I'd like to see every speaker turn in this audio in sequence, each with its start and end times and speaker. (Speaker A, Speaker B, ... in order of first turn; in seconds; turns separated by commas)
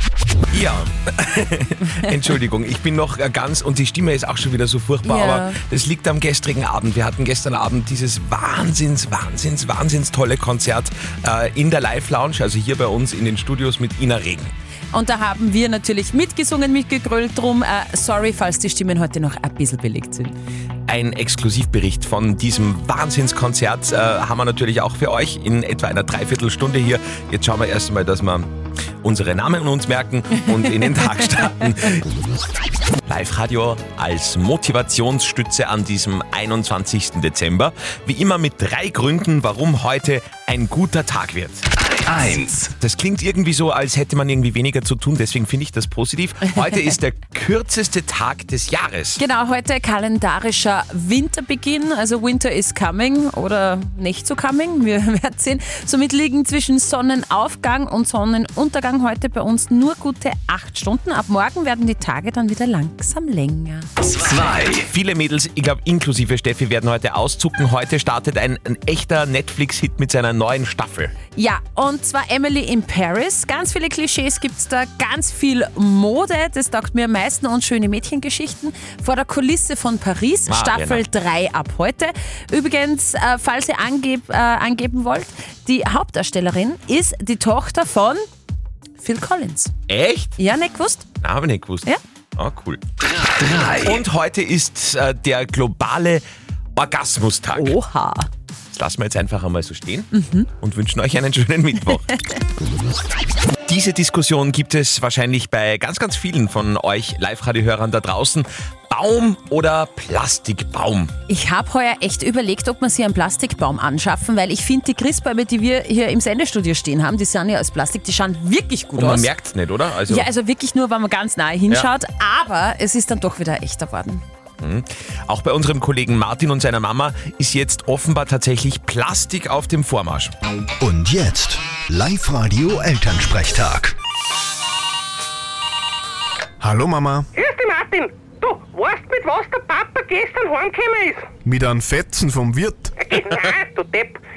Speaker A: 0.5-14.5, Speaker B: 5.0-5.6, Speaker B: 14.9-20.4, Speaker A: 20.9-28.5, Speaker A: 29.0-32.0, Speaker A: 33.1-41.6, Speaker A: 42.8-49.2, Speaker B: 49.2-63.9, Speaker A: 64.6-71.1, Speaker B: 71.4-88.2, Speaker A: 80.5-81.0, Speaker B: 89.0-89.7, Speaker A: 89.9-90.4, Speaker B: 90.4-91.1, Speaker A: 91.2-91.9, Speaker A: 92.4-92.8, Speaker C: 93.5-94.0, Speaker A: 93.8-96.2, Speaker A: 96.8-97.7, Speaker B: 97.5-98.3, Speaker A: 98.7-100.1, Speaker B: 100.1-100.5, Speaker A: 100.6-102.1, Speaker A: 103.7-111.1, Speaker B: 111.3-119.3, Speaker A: 119.0-120.3, Speaker B: 120.1-124.2, Speaker A: 124.6-130.3, Speaker C: 130.8-133.9, Speaker D: 136.6-137.3, Speaker E: 137.4-138.1, Speaker E: 138.7-141.2, Speaker D: 141.4-142.9, Speaker E: 143.1-144.2